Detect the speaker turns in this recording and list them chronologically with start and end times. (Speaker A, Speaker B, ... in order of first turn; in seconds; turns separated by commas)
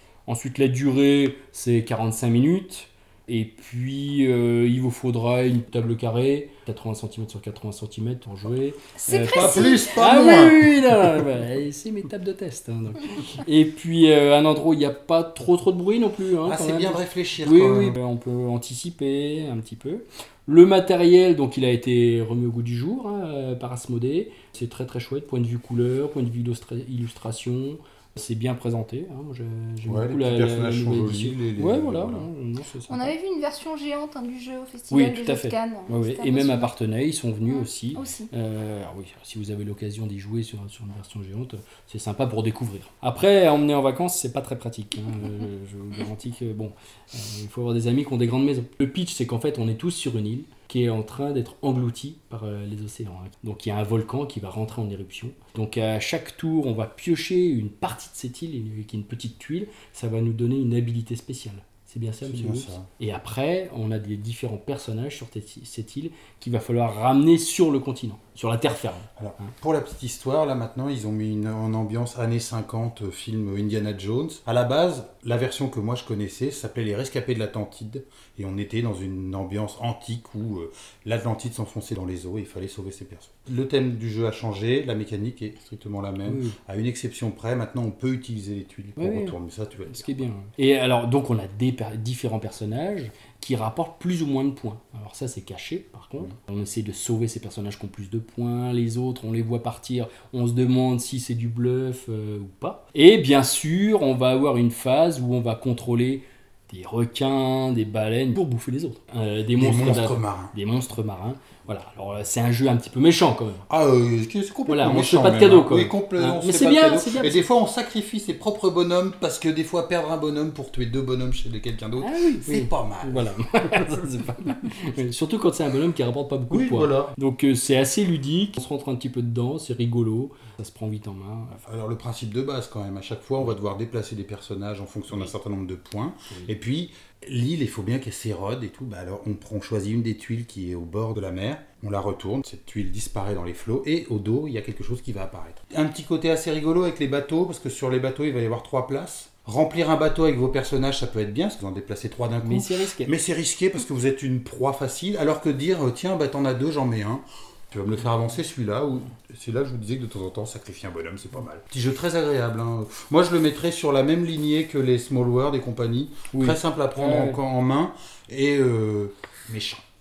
Speaker A: 0.3-33.1, Speaker B: 9.0-10.1, Speaker C: 9.3-11.2, Speaker C: 16.4-17.9, Speaker C: 29.8-32.3, Speaker B: 32.9-36.7, Speaker A: 34.9-69.5, Speaker B: 37.5-38.3, Speaker C: 62.2-62.9, Speaker C: 69.2-90.2, Speaker A: 86.2-86.5, Speaker A: 89.0-89.4, Speaker A: 89.9-113.7, Speaker C: 109.6-110.5, Speaker C: 113.7-123.9, Speaker A: 114.7-117.4, Speaker A: 122.0-131.6, Speaker C: 126.5-127.1, Speaker C: 131.7-169.8, Speaker A: 152.4-153.1, Speaker A: 166.3-167.4